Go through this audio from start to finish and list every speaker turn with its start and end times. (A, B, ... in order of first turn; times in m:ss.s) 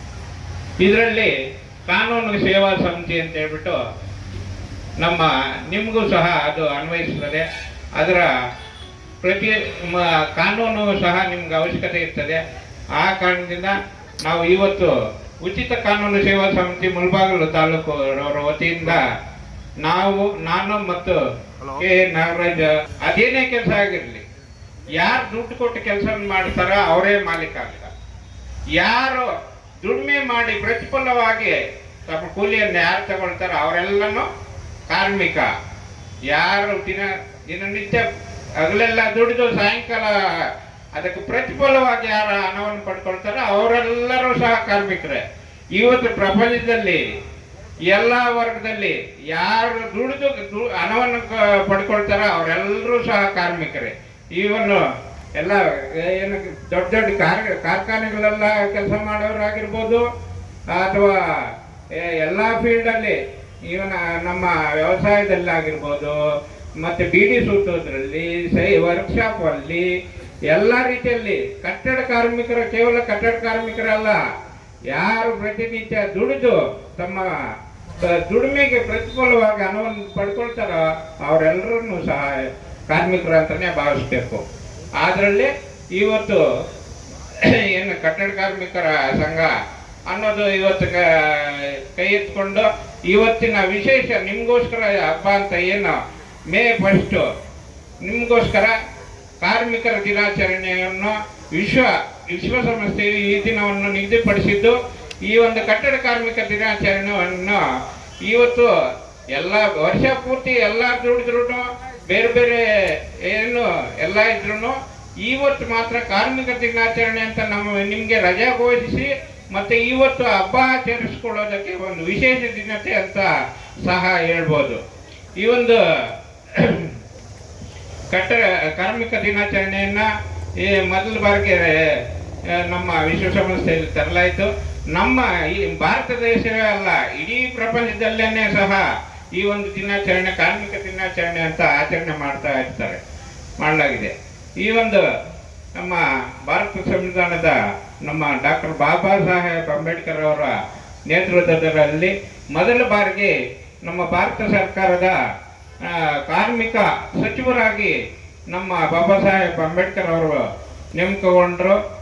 0:00.8-0:01.3 A
0:01.9-0:03.8 A
0:05.0-0:07.4 A
0:08.0-0:08.3 A
0:09.2-0:12.4 A
0:13.0-0:14.9 A
0:15.4-0:19.0 A
0:19.8-0:21.2 A
0:21.7-0:24.2 A
0:25.0-0:27.9 A
0:28.8-0:29.3 A
0:29.8-0:31.6 A
0:32.1-0:34.3 A
0:34.9-0:35.5 A
0:36.3-0:38.0 A
0:38.6-0:45.2 A
0:45.8-0:47.0 A
0:47.9-0:54.8 A
0:55.4-1:00.0 A
1:00.7-1:06.2 A
1:06.8-1:09.8 A
1:10.5-1:14.2 A
1:14.9-1:17.2 A
1:18.0-1:24.4 A
1:25.0-1:26.4 A
1:27.4-1:29.5 A
1:30.1-1:36.0 A
1:36.5-1:37.2 A
1:38.0-1:38.7 A
1:39.4-1:44.8 A
1:45.3-1:47.6 A
1:48.3-1:48.7 A
1:49.4-1:52.6 A
1:53.3-2:03.3 A
2:03.8-2:04.8 A
2:05.4-2:05.8 A
2:06.5-2:06.9 A
2:08.1-2:10.1 A
2:10.6-2:11.9 A
2:12.5-2:18.8 A
2:19.4-2:23.0 A
2:23.6-2:25.0 A
2:25.8-2:30.6 A
2:31.1-2:35.2 A
2:35.8-2:37.9 A
2:38.5-2:40.4 A
2:41.0-2:41.8 A